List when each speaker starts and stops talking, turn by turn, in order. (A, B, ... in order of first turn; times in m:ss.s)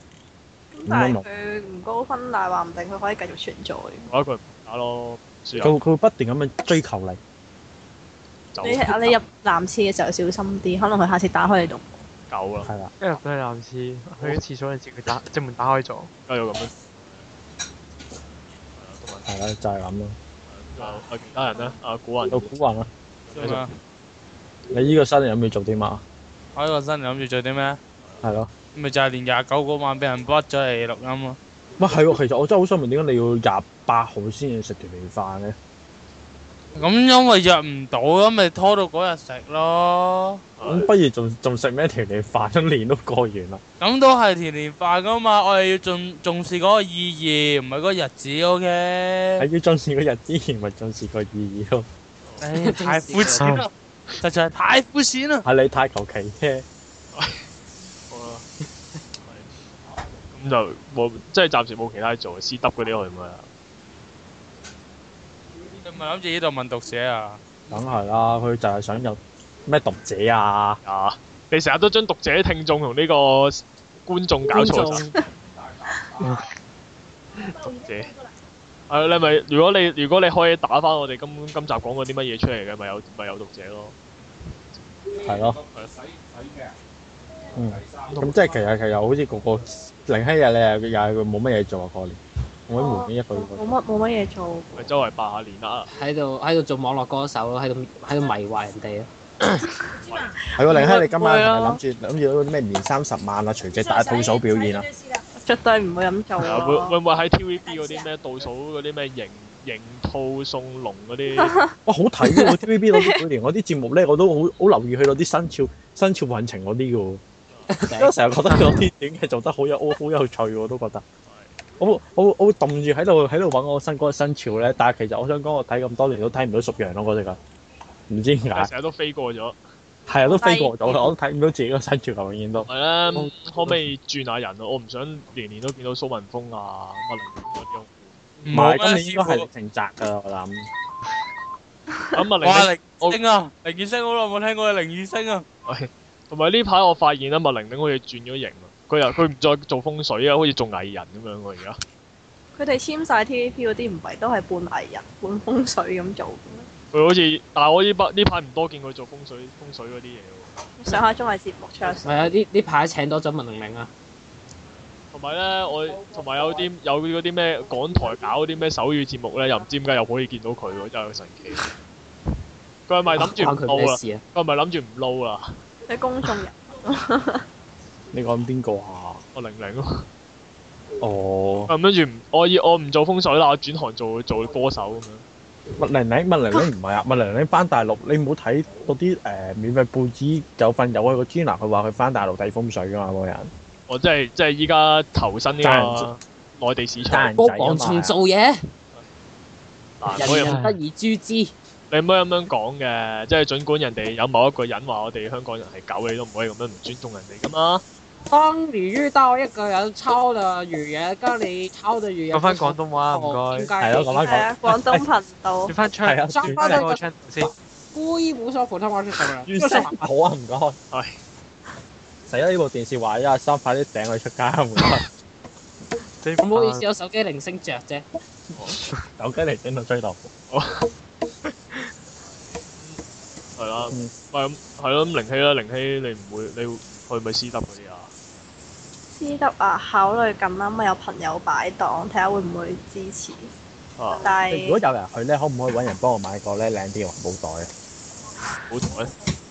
0:00.7-0:04.1 A
0:00.9-0:01.2 B
0:04.1-0:05.8 C
0:05.6-0:07.2 B
0:08.5-0:09.2 C
0:08.6-0:12.0 A
0:12.3-0:12.7 C
0:12.6-0:12.9 B
0:13.0-0:16.1 D
0:16.3-0:17.2 C
0:18.8-0:19.3 C
0:19.2-0:20.2 B
0:20.5-0:22.4 C
0:22.3-0:22.9 B
0:23.3-0:23.6 C
0:23.4-0:23.7 E
0:24.7-0:26.0 B
0:26.6-0:27.8 E
0:28.0-0:28.3 C
0:28.2-0:28.5 B
0:28.7-0:31.4 E
0:31.8-0:35.6 B
0:36.8-0:40.4 E
0:40.6-0:40.9 C
0:40.7-0:43.6 B
0:43.8-0:49.5 E
0:49.4-0:51.9 B
0:52.4-0:55.4 E
0:52.6-0:53.5 F
0:53.4-0:53.7 D
0:55.4-0:56.6 B
0:57.1-0:57.5 C
0:58.1-0:58.4 C
0:59.2-0:59.5 C
1:00.3-1:03.5 C
1:05.8-1:07.4 E
1:07.7-1:10.8 B
1:10.8-1:15.1 C
1:14.6-1:15.0 F
1:16.2-1:16.5 D
1:17.4-1:18.1 C
1:18.9-1:24.0 C
1:25.2-1:25.6 B
1:27.5-1:32.2 B
1:28.1-1:28.4 C
1:32.7-1:33.6 B
1:32.7-1:34.9 A
1:34.8-1:35.9 C
1:35.9-1:39.7 F
1:40.1-1:40.4 C
1:40.6-1:44.9 B
1:40.6-1:41.8 A
1:45.4-1:47.0 A
1:46.4-1:51.6 C
1:51.4-1:51.7 A
1:51.9-1:57.2 B
1:52.3-1:52.6 F
1:52.9-1:53.2 A
1:57.7-1:58.8 F
1:57.9-2:01.0 B
2:01.3-2:01.5 C
2:01.8-2:07.4 B
2:08.1-2:08.7 B
2:08.5-2:09.6 C
2:10.1-2:12.7 B
2:10.3-2:11.1 A
2:12.6-2:18.5 C
2:18.4-2:19.5 E
2:18.5-2:20.7 B
2:22.1-2:23.2 C
2:22.4-2:25.4 E
2:25.7-2:31.8 C
2:32.6-2:36.7 A
2:36.9-2:40.5 C
2:40.8-2:42.3 A
2:42.0-2:43.9 F
2:45.1-2:51.7 C
2:52.9-2:55.6 C
2:53.2-2:54.2 F
2:55.9-2:57.4 A
2:58.1-2:59.2 B
2:59.4-3:00.1 C
3:01.0-3:01.7 B
3:01.7-3:05.2 C
3:05.8-3:13.5 B
3:13.9-3:17.4 C
3:15.6-3:16.1 B
3:17.0-3:18.2 B
3:17.4-3:18.6 F
3:20.0-3:20.6 C
3:20.1-3:21.5 F
3:20.3-3:20.8 D
3:21.9-3:27.8 C
3:28.3-3:34.3 F
3:32.3-3:33.7 D
3:33.8-3:35.0 B
3:34.2-3:35.7 A
3:35.7-3:37.5 D
3:36.0-3:36.9 B
3:36.4-3:37.0 F
3:37.9-3:39.8 F
3:39.5-3:40.8 B
3:39.6-3:40.1 D
3:40.9-3:41.2 C
3:42.3-3:45.0 B
3:46.2-3:46.9 D
3:46.4-3:48.1 F
3:49.1-3:50.3 B
3:50.5-3:50.9 C
3:53.6-3:58.1 C
3:59.2-4:03.5 A
4:04.0-4:04.3 C
4:04.1-4:04.8 A
4:04.5-4:07.7 B
4:08.7-4:09.1 C